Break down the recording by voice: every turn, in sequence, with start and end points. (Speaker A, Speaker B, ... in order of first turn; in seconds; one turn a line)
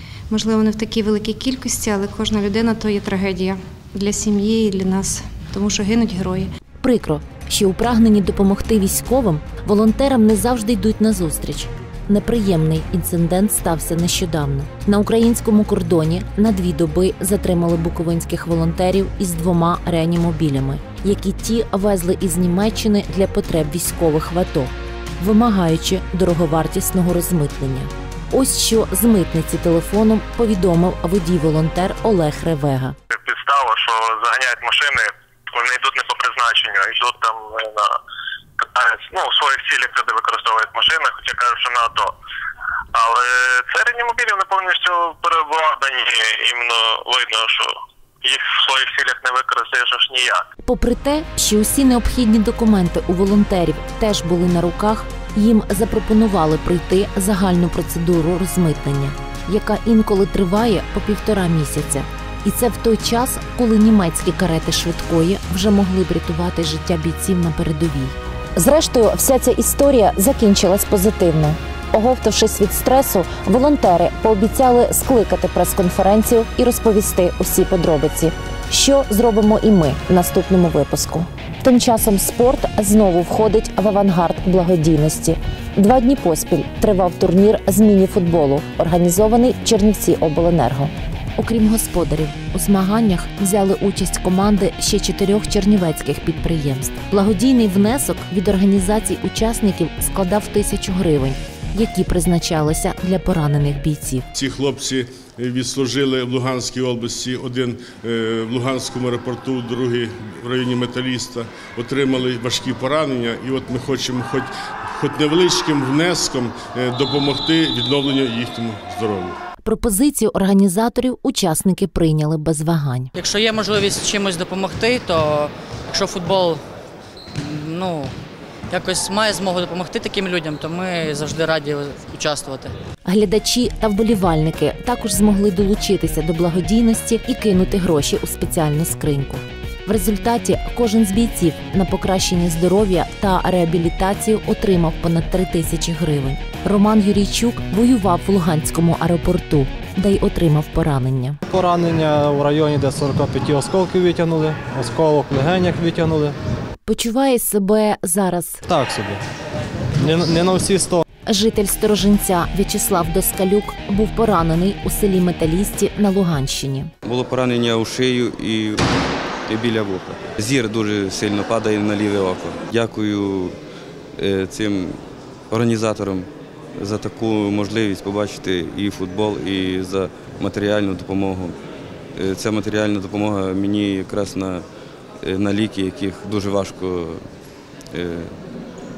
Speaker A: 0.3-6.5
Speaker B: 6.8-33.0
Speaker C: 33.1-37.9
Speaker C: 38.6-42.1
Speaker C: 42.9-50.4
Speaker B: 50.6-104.2
Speaker D: 104.3-119.3
Speaker B: 119.6-123.1
Speaker E: 123.2-126.6
Speaker E: 127.4-128.1
Speaker E: 128.7-132.7
Speaker B: 133.1-151.4
Speaker F: 151.5-156.3
Speaker B: 156.8-158.6
Speaker F: 158.7-159.2
Speaker F: 160.0-161.0
Speaker B: 161.3-166.9
Speaker G: 167.0-168.9
Speaker G: 169.5-173.6
Speaker G: 174.2-181.6
Speaker G: 182.1-184.7
Speaker G: 185.2-187.2
Speaker G: 187.9-188.3